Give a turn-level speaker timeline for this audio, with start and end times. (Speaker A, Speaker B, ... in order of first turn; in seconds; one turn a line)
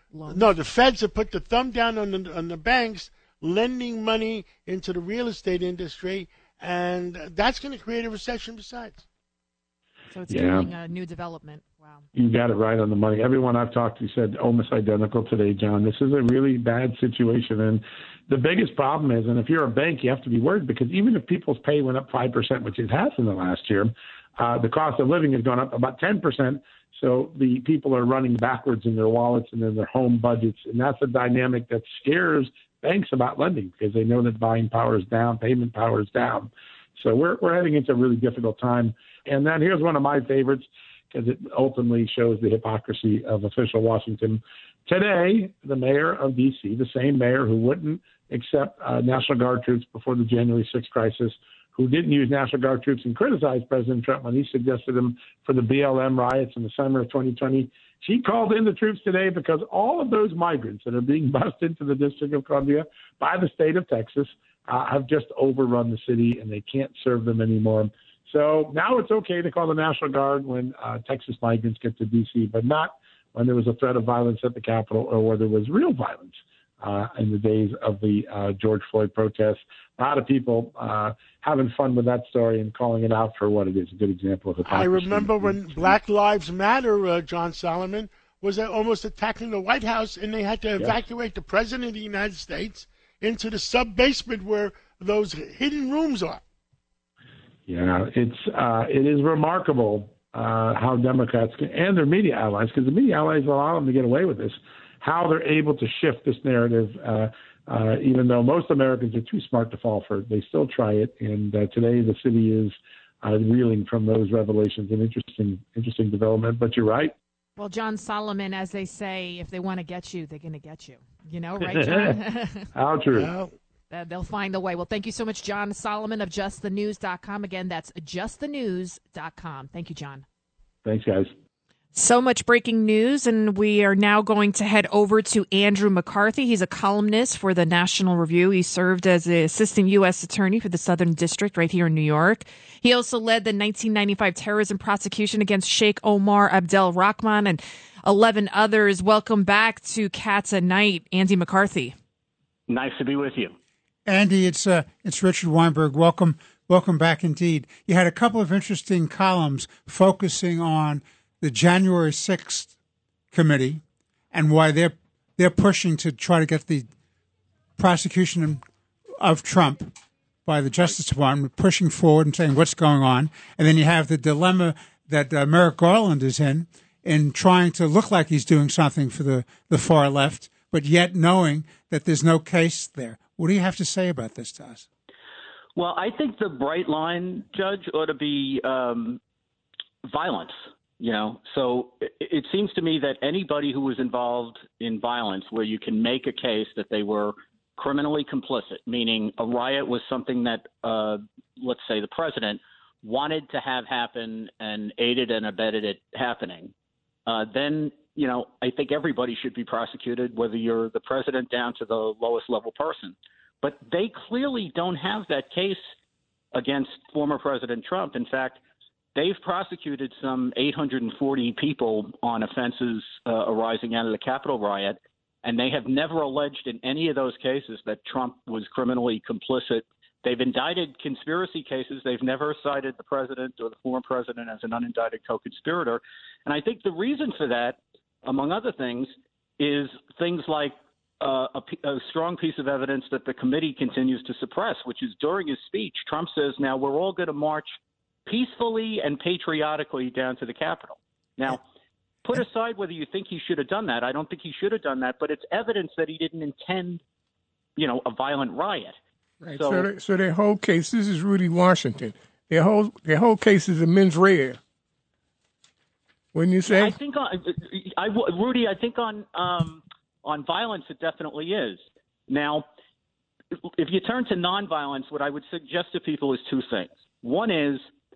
Speaker A: 0.1-0.5
Speaker B: 0.3-9.0
Speaker A: 10.1-12.1
Speaker C: 10.3-10.7
Speaker C: 12.2-86.0
Speaker B: 84.7-96.4
Speaker C: 97.7-117.1
Speaker A: 117.6-122.7
Speaker C: 121.6-122.2
Speaker C: 122.7-123.3
Speaker B: 123.1-123.5
Speaker A: 123.9-130.2
Speaker C: 130.8-131.3
Speaker A: 131.9-151.9
Speaker D: 152.7-153.6
Speaker E: 154.1-162.7
Speaker E: 163.3-163.8
Speaker E: 164.3-166.9
Speaker E: 167.8-168.6
Speaker E: 169.2-169.9
Speaker E: 170.5-184.8
Speaker D: 185.8-189.2
Speaker D: 190.1-206.7
Speaker D: 207.3-215.8
Speaker D: 216.5-218.6
Speaker D: 219.2-247.8
Speaker D: 248.3-251.6
Speaker D: 252.2-257.0
Speaker D: 257.8-259.0
Speaker F: 259.4-264.6
Speaker D: 259.5-259.9
Speaker F: 266.3-267.0
Speaker D: 266.7-272.6
Speaker D: 273.8-277.9